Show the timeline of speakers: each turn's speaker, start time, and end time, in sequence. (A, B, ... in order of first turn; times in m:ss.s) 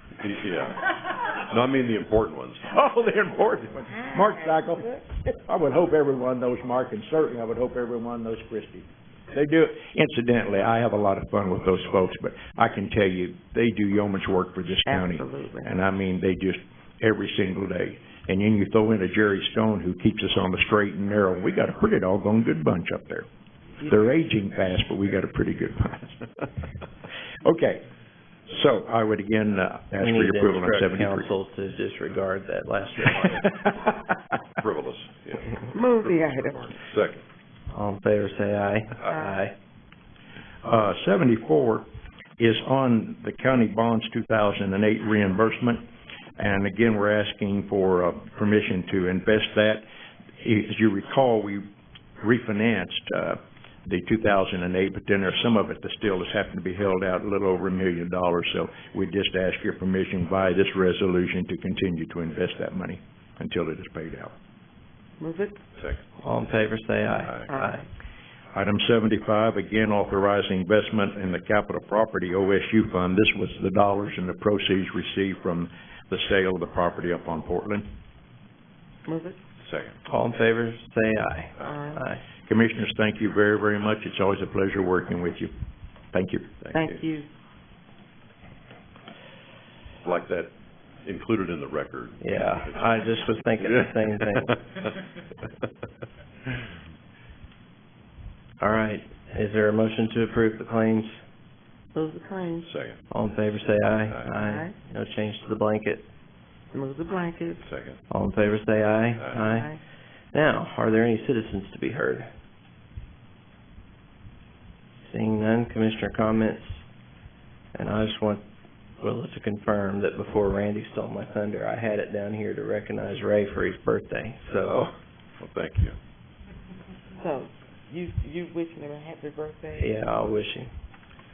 0:00.2-0:02.7 A
0:02.6-0:23.3 B
0:14.9-0:15.7 C
0:23.8-0:26.2 B
0:27.4-0:27.9 B
0:28.5-0:31.3 B
0:30.0-0:33.6 D
0:34.6-0:37.2 A
0:35.7-0:36.6 C
0:37.7-0:39.6 D
0:40.6-0:41.9 B
0:42.4-0:49.8 B
0:50.4-0:51.7 B
0:52.2-1:04.3 B
1:05.2-1:05.6 C
1:06.2-1:07.9 D
1:07.5-1:07.8 C
1:08.5-1:17.9 B
1:19.1-1:19.4 C
1:19.6-1:20.0 A
1:20.0-1:22.2 D
1:21.6-1:22.0 C
1:22.5-1:25.5 B
1:26.1-1:26.5 B
1:26.6-1:27.0 A
1:26.7-1:27.3 C
1:30.0-1:30.5 A
1:31.0-1:33.1 A
1:32.2-1:34.6 D
1:38.6-1:41.2 D
1:41.9-1:42.7 C
1:42.7-1:43.0 A
1:43.1-1:46.1 D
1:44.4-1:44.8 C
1:46.7-1:47.6 C
1:47.6-1:48.0 A
1:48.1-1:49.8 D
1:49.5-1:49.8 C
1:50.3-1:52.3 D
1:55.0-1:56.8 D
1:57.8-1:58.4 D
1:59.0-2:04.9 D
2:05.4-2:06.0 A
2:07.2-2:10.0 C
2:09.8-2:10.7 D